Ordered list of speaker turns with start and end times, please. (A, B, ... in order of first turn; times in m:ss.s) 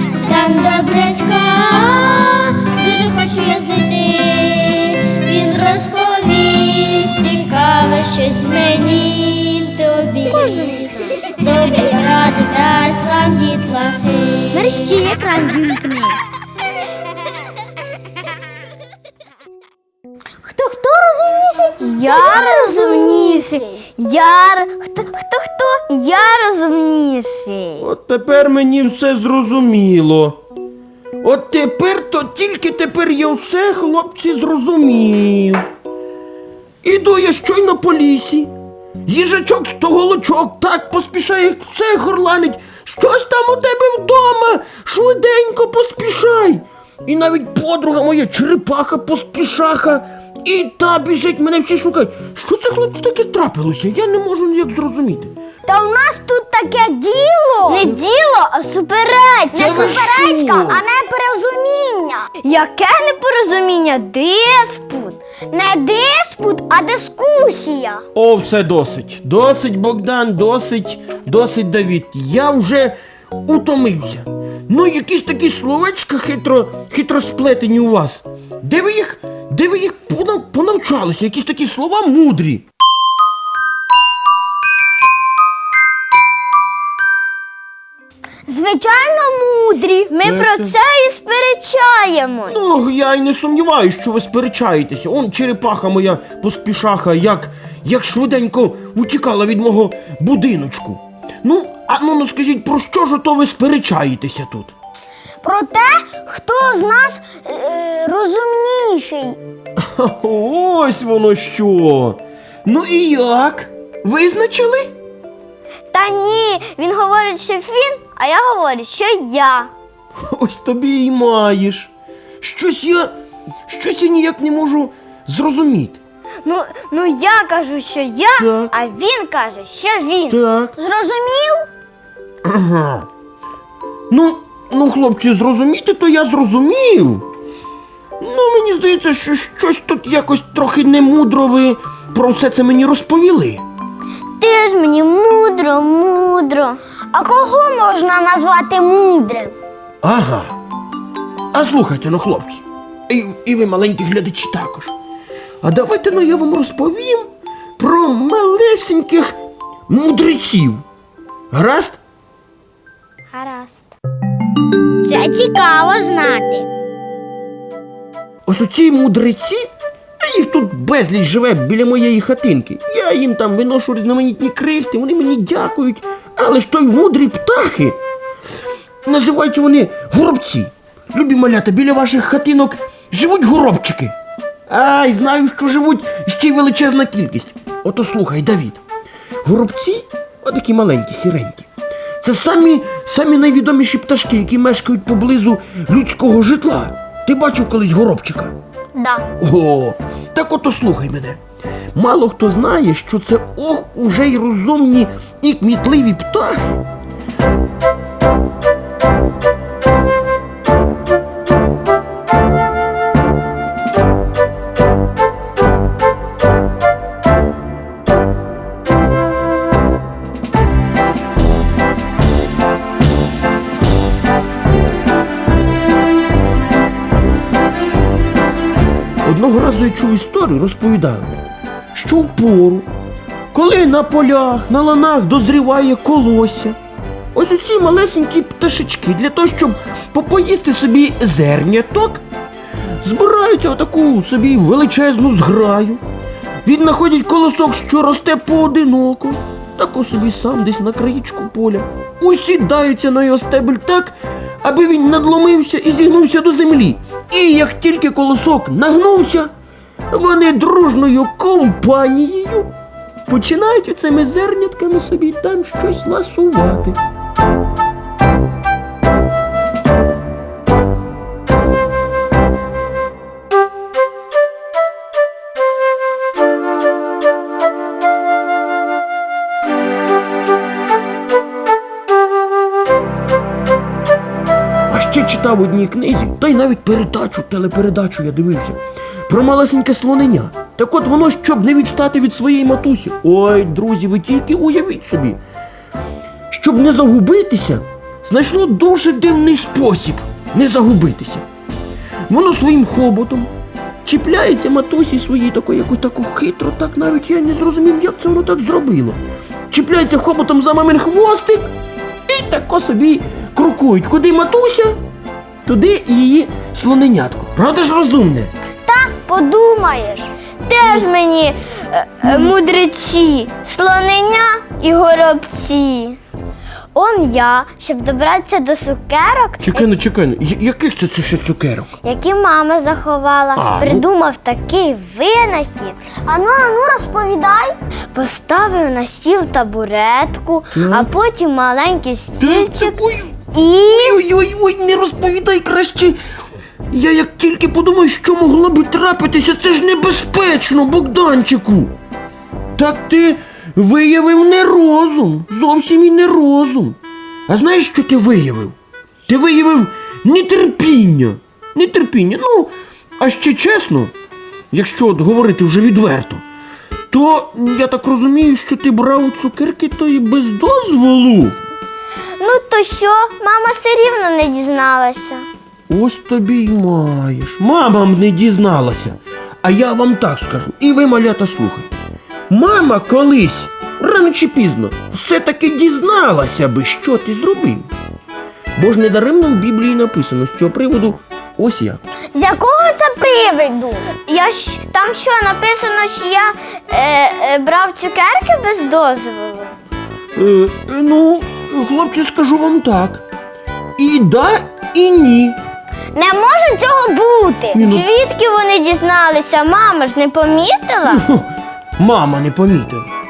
0:00.1-0:06.5 A
0:01.9-0:02.6 B
0:04.2-0:09.7 B
0:07.9-0:09.1 A
0:09.7-0:16.2 A
0:11.3-0:12.5 B
0:20.5-0:27.8 B
0:21.8-0:23.6 A
0:27.8-0:30.4 C
0:31.2-0:35.7 C
0:36.8-0:38.5 C
0:39.0-0:55.3 C
0:55.6-1:08.0 B
0:57.6-0:57.9 A
0:59.5-1:00.8 C
1:08.1-1:22.6 C
1:28.5-1:32.7 B
1:30.2-1:30.8 C
1:32.5-1:44.7 C
1:45.4-1:49.4 B
1:49.8-1:54.9 C
1:55.9-1:59.7 B
2:00.3-2:03.1 C
2:03.7-2:06.0 C
2:06.4-2:11.6 B
2:08.4-2:08.7 C
2:10.3-2:10.8 C
2:12.4-2:13.0 C
2:14.1-2:17.2 C
2:18.2-2:23.6 C
2:24.4-2:29.6 B
2:30.0-2:30.6 C
2:31.5-2:34.9 C
2:35.6-2:39.4 C
2:39.9-2:40.8 C
2:41.5-2:42.0 C
2:43.3-2:43.8 B
2:45.0-2:46.6 A
2:48.4-2:49.7 C
2:50.2-2:58.0 C
2:59.0-3:04.1 C
3:04.7-3:08.8 C
3:09.4-3:11.7 C
3:12.2-3:18.6 C
3:18.9-3:19.3 B
3:19.4-3:21.4 C
3:21.9-3:26.8 C
3:49.2-3:51.4 C
3:51.9-3:52.9 C
3:53.5-3:56.8 C
3:57.3-4:02.2 C
4:03.0-4:06.0 C
4:06.6-4:19.5 C
4:20.1-4:22.7 C
4:23.3-4:27.0 C
4:44.9-4:55.4 C
4:56.5-5:01.5 C
5:02.3-5:03.5 C
5:04.0-5:11.7 C
5:12.3-5:15.0 C
5:15.6-5:18.5 C
5:18.8-5:26.2 B
5:22.2-5:22.5 C
5:26.9-5:29.8 B
5:29.6-5:31.9 C
5:32.0-5:43.0 B
5:33.6-5:34.1 C
5:40.7-5:41.1 C
5:42.4-5:46.2 C
5:43.5-5:44.2 B
5:46.9-5:51.9 C
5:52.8-6:04.1 C
6:04.7-6:06.4 C
6:07.1-6:11.6 C
6:12.4-6:15.4 B
6:15.9-6:21.9 C
6:22.5-6:27.9 C
6:28.8-6:32.0 C
6:32.3-6:39.7 B
6:40.3-6:43.2 C
6:44.0-6:45.6 C
6:46.1-6:51.2 B
6:47.7-6:48.1 C
6:51.0-6:53.1 C